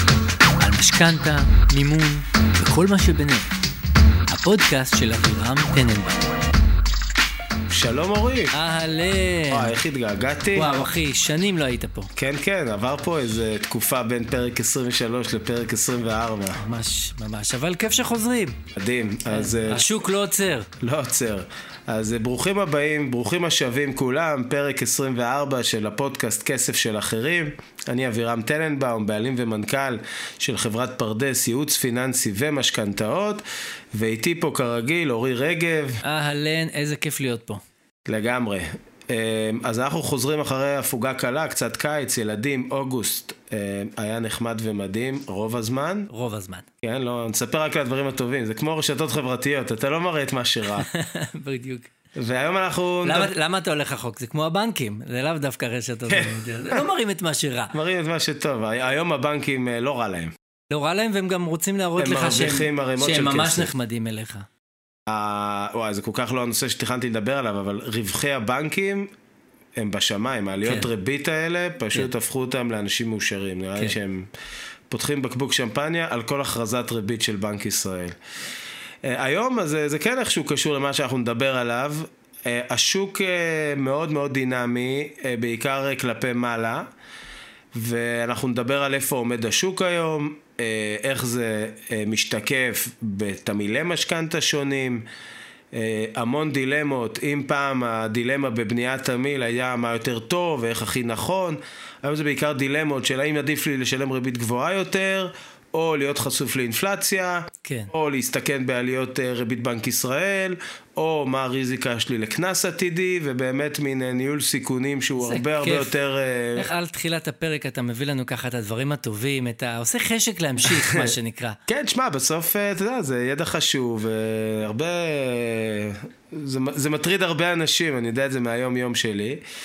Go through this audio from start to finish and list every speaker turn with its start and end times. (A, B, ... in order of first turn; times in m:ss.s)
0:00.6-0:03.5 A
0:04.3-0:06.2 A
0:07.7-0:08.5 B
0:08.5-0:09.7 A
0:09.5-0:10.7 B
0:10.5-0:12.1 A
0:12.2-0:16.6 B
0:16.5-0:18.6 A
0:18.7-0:19.9 B
0:19.3-0:20.7 A
0:20.8-0:36.0 B
0:36.0-0:37.6 A
0:38.0-0:46.1 B
0:46.1-0:46.7 A
0:46.8-0:50.9 B
0:50.7-0:51.9 A
0:52.1-0:53.3 B
0:53.0-0:57.7 A
0:56.1-0:56.8 B
0:57.7-1:00.3 B
1:00.7-1:04.5 A
1:02.0-1:03.7 B
1:05.1-1:09.1 B
1:09.8-1:14.3 B
1:14.9-1:18.2 B
1:19.0-1:26.8 B
1:27.7-1:35.0 B
1:35.7-1:56.7 B
1:47.6-1:47.9 A
1:55.2-1:55.9 A
1:56.6-2:01.6 A
2:00.6-2:01.1 B
2:01.7-2:09.4 B